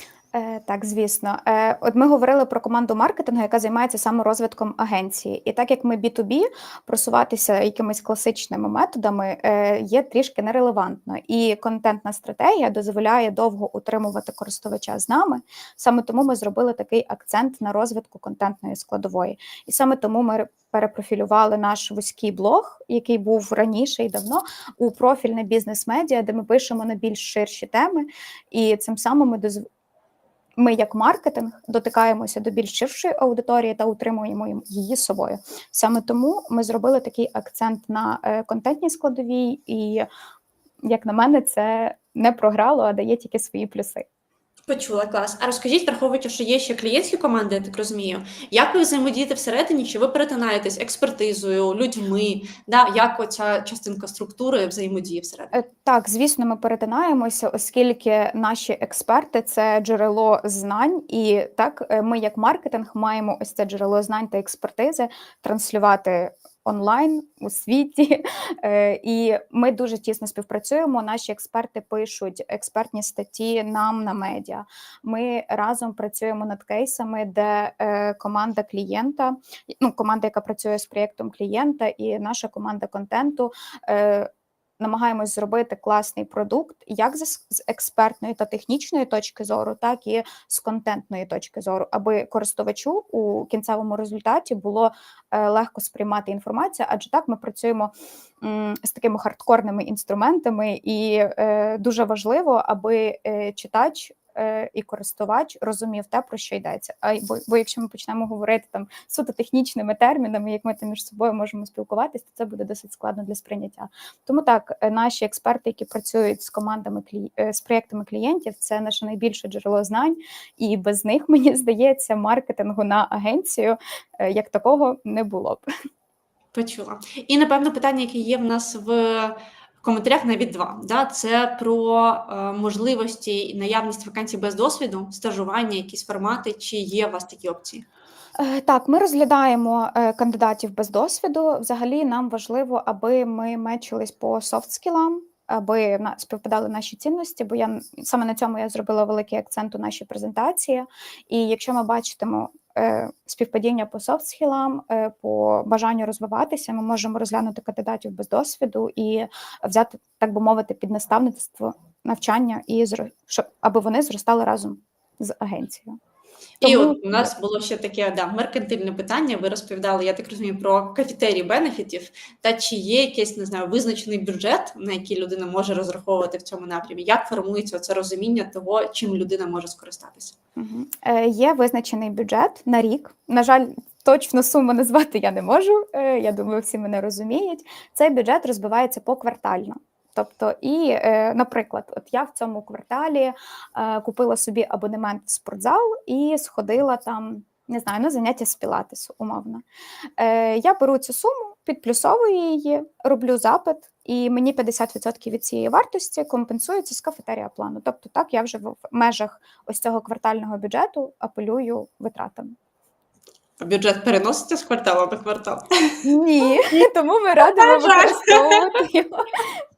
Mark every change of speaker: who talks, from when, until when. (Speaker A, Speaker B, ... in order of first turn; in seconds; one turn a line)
Speaker A: 0.3-29.6
Speaker A: 30.6-40.1
Speaker A: 40.8-44.1
Speaker B: 44.7-55.6
Speaker A: 55.5-125.6
Speaker B: 126.5-137.8
Speaker A: 138.4-165.9
Speaker A: 166.6-167.3
Speaker B: 166.6-180.3
Speaker A: 180.6-199.6
Speaker A: 200.2-212.5
Speaker B: 213.6-216.0
Speaker A: 216.0-219.6
Speaker B: 217.4-218.8